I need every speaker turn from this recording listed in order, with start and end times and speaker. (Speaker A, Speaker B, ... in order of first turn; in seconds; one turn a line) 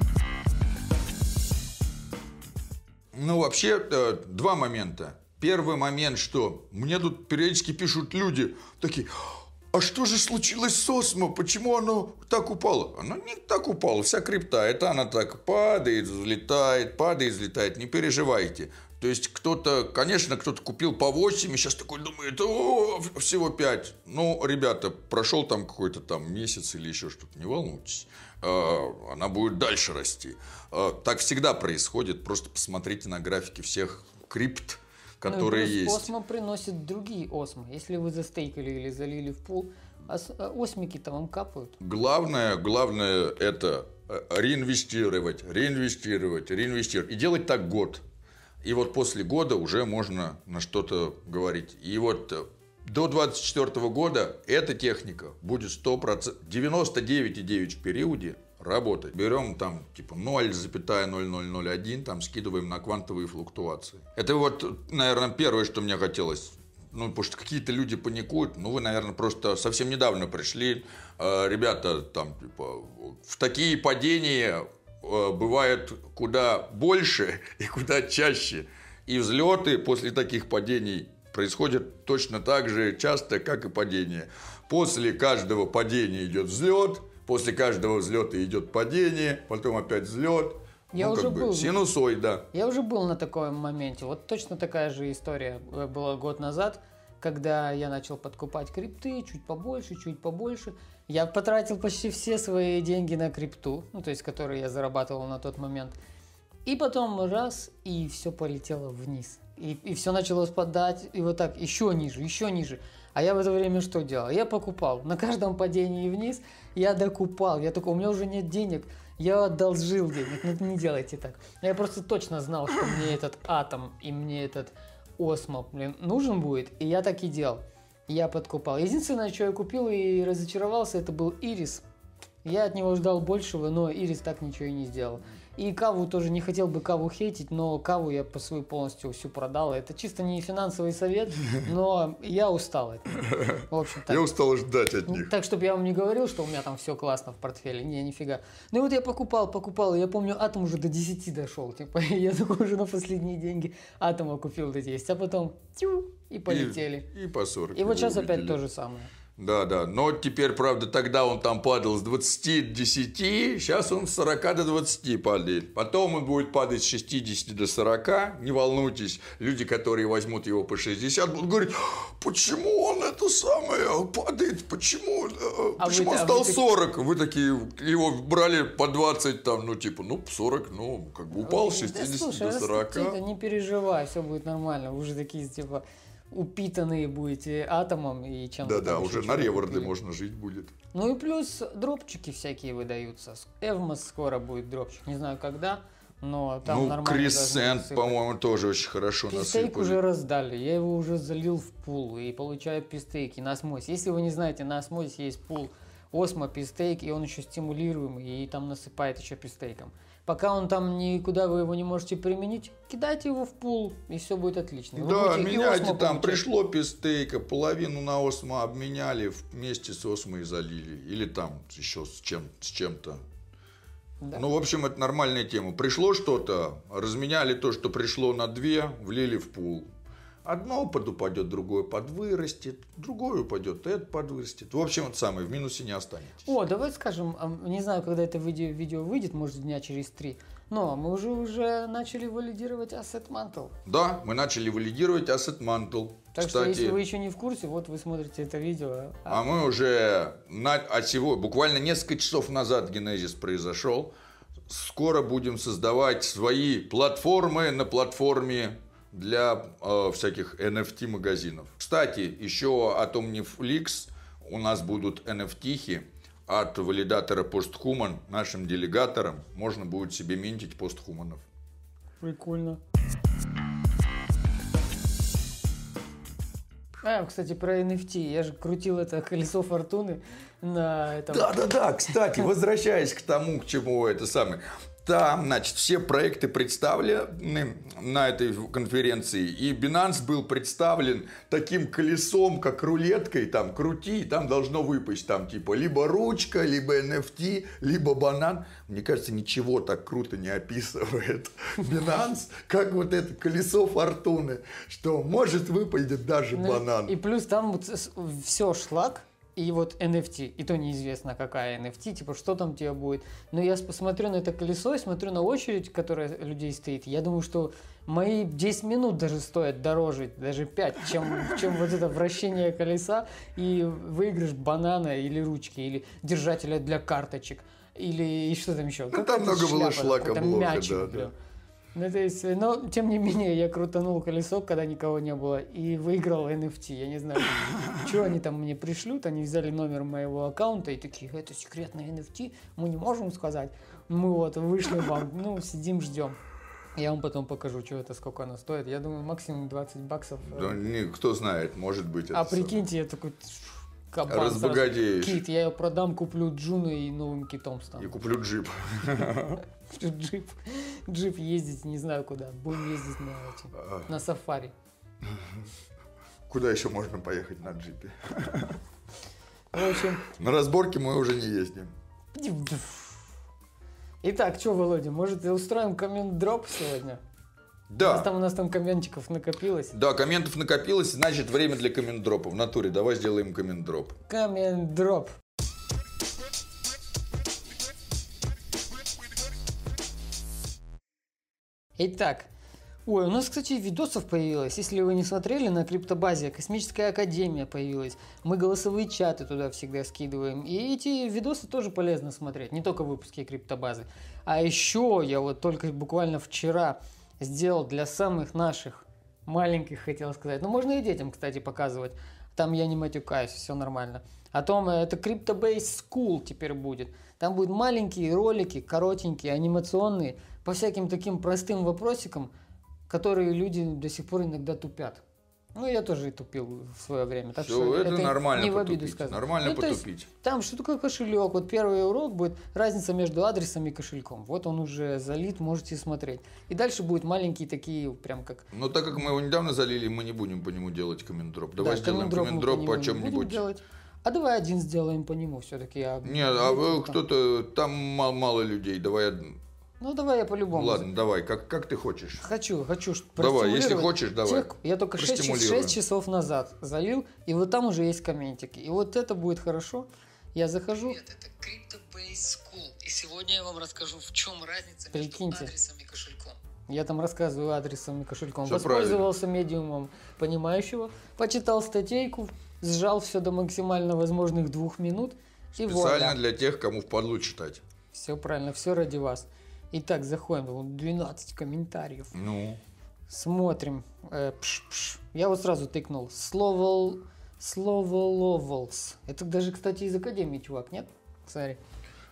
Speaker A: 3.1-9.1
Speaker A: 9.7-36.1
Speaker B: 35.3-41.8
Speaker A: 41.8-48.0
Speaker A: 48.6-92.5
Speaker B: 90.9-91.8
Speaker B: 92.5-106.0
Speaker B: 106.7-131.8
Speaker B: 132.4-144.3
Speaker A: 143.3-143.6
Speaker A: 144.1-145.3
Speaker B: 145.1-157.1
Speaker A: 156.5-158.6
Speaker B: 157.8-159.1
Speaker A: 159.4-183.2
Speaker B: 175.8-176.6
Speaker B: 181.4-189.9
Speaker A: 188.6-190.7
Speaker B: 190.9-198.2
Speaker A: 196.7-200.0
Speaker B: 199.3-216.4
Speaker A: 215.0-223.2
Speaker A: 224.3-229.9
Speaker A: 230.4-236.5
Speaker B: 236.4-243.7
Speaker A: 243.9-247.0
Speaker B: 246.3-249.5
Speaker A: 249.3-254.1
Speaker A: 254.7-271.4
Speaker B: 272.2-272.8
Speaker B: 277.0-281.7
Speaker A: 281.3-307.1
Speaker B: 306.6-331.3
Speaker A: 329.1-331.3
Speaker B: 331.9-346.4
Speaker B: 347.0-350.8
Speaker A: 350.5-352.9
Speaker B: 352.3-358.2
Speaker A: 354.3-355.4
Speaker A: 358.0-359.6
Speaker B: 359.9-364.7
Speaker A: 363.8-364.1
Speaker A: 365.2-365.7
Speaker A: 366.5-368.8
Speaker B: 369.7-370.3
Speaker A: 370.2-371.9
Speaker B: 372.4-373.1
Speaker B: 374.2-377.2
Speaker A: 377.9-378.3
Speaker B: 378.0-379.9
Speaker A: 379.9-384.1
Speaker B: 384.3-385.3
Speaker B: 392.0-392.5
Speaker B: 393.1-422.5
Speaker B: 423.1-425.2
Speaker B: 425.8-438.6
Speaker A: 427.6-430.3
Speaker A: 438.7-443.6
Speaker B: 441.8-447.2
Speaker A: 446.2-449.6
Speaker B: 450.0-451.1
Speaker A: 450.7-452.4
Speaker B: 452.4-476.4
Speaker A: 453.4-456.0
Speaker A: 468.7-469.3
Speaker A: 475.8-477.8
Speaker B: 478.1-482.3
Speaker A: 482.3-482.8
Speaker B: 483.3-491.8